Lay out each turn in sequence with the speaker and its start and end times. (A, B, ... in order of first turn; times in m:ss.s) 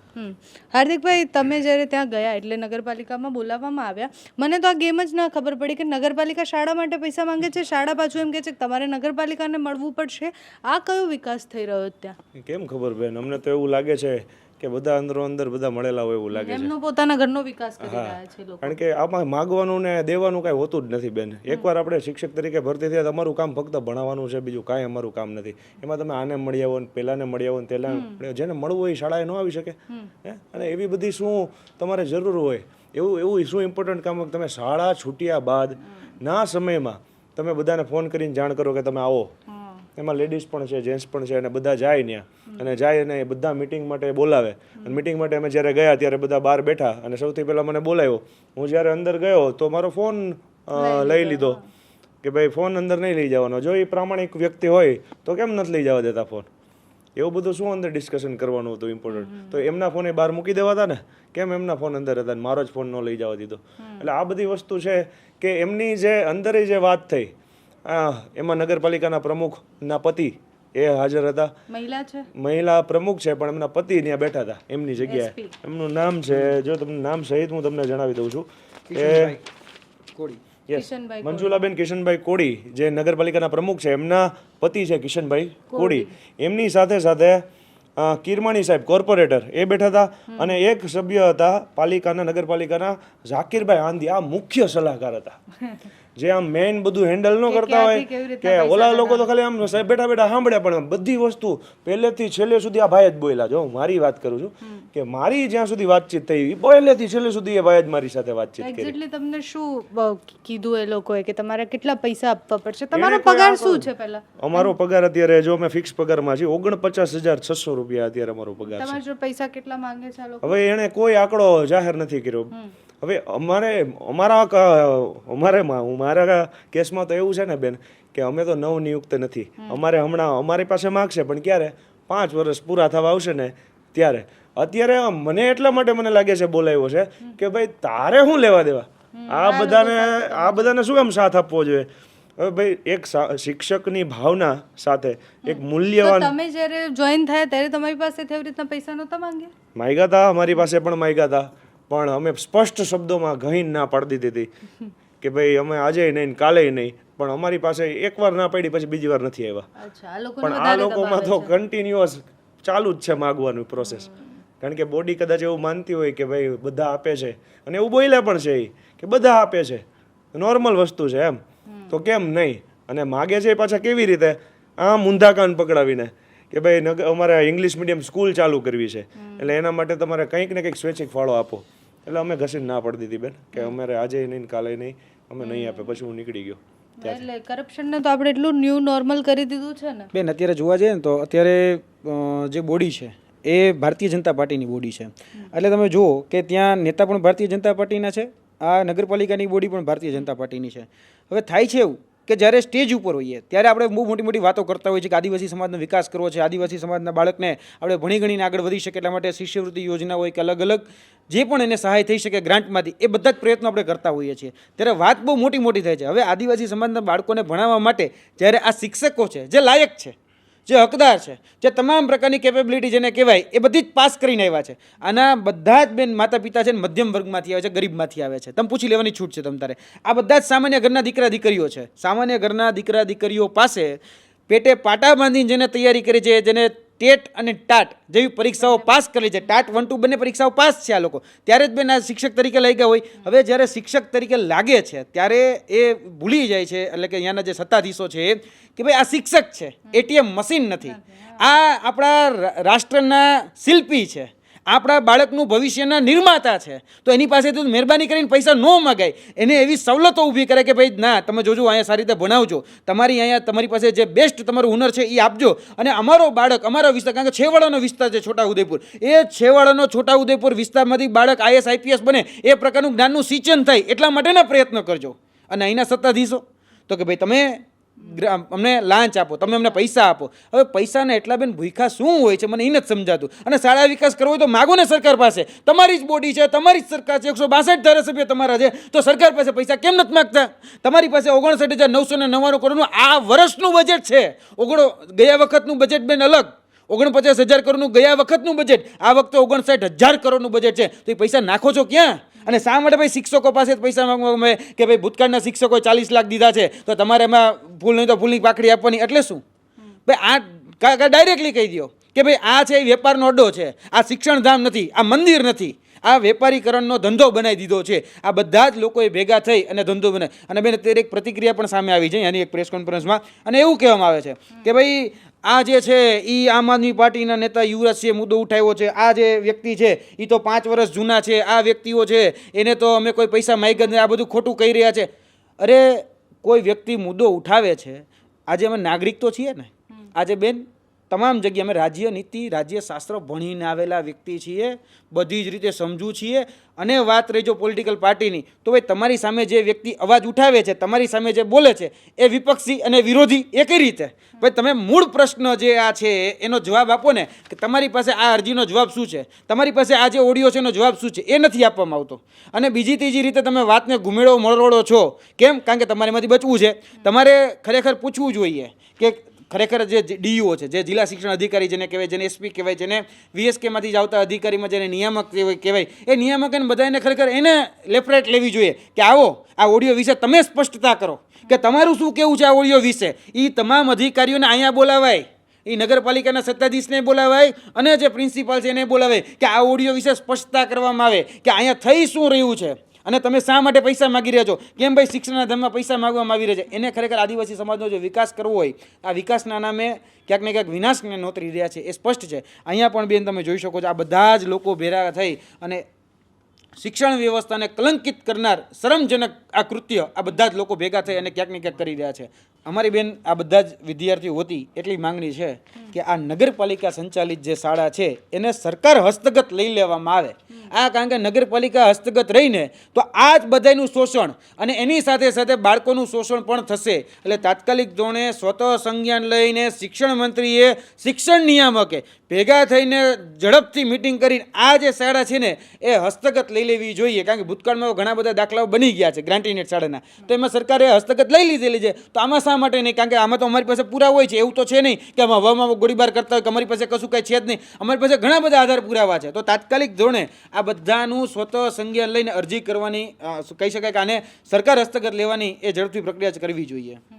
0:00.2-0:12.2 A
0:12.4-0:16.7 B
0:16.3-0:18.8 A
0:17.8-0:39.3 B
0:27.9-0:28.2 A
0:39.5-0:39.8 A
0:40.0-0:51.6 B
0:50.8-0:51.6 A
0:52.2-0:56.5 B
0:57.2-1:07.3 B
0:59.1-0:59.6 A
1:03.8-1:04.1 A
1:07.8-1:11.5 B
1:11.7-1:12.3 A
1:12.3-1:19.4 B
1:15.0-1:15.5 A
1:16.3-1:16.6 C
1:18.9-1:19.4 C
1:20.1-1:20.4 C
1:20.7-1:27.4 B
1:20.7-1:21.6 A
1:25.7-1:26.1 A
1:28.0-1:35.4 B
1:30.3-1:30.5 A
1:36.2-1:48.9 B
1:37.5-1:39.3 A
1:48.6-1:54.7 A
1:52.9-1:59.0 B
1:58.7-2:00.6 A
2:00.4-2:26.3 B
2:19.1-2:20.7 A
2:25.4-2:29.5 A
2:29.8-2:34.5 B
2:35.2-2:39.6 B
2:39.8-2:41.6 A
2:40.4-2:44.1 B
2:43.8-2:44.3 A
2:44.6-3:07.2 B
2:51.7-2:52.0 A
2:59.2-2:59.5 A
3:05.4-3:05.9 A
3:07.0-3:10.1 A
3:10.1-3:40.1 C
3:40.7-3:54.0 C
3:54.5-5:09.4 C
4:10.8-4:11.4 A
5:10.1-5:35.1 C
5:35.6-6:45.8 C
6:46.8-7:37.0 C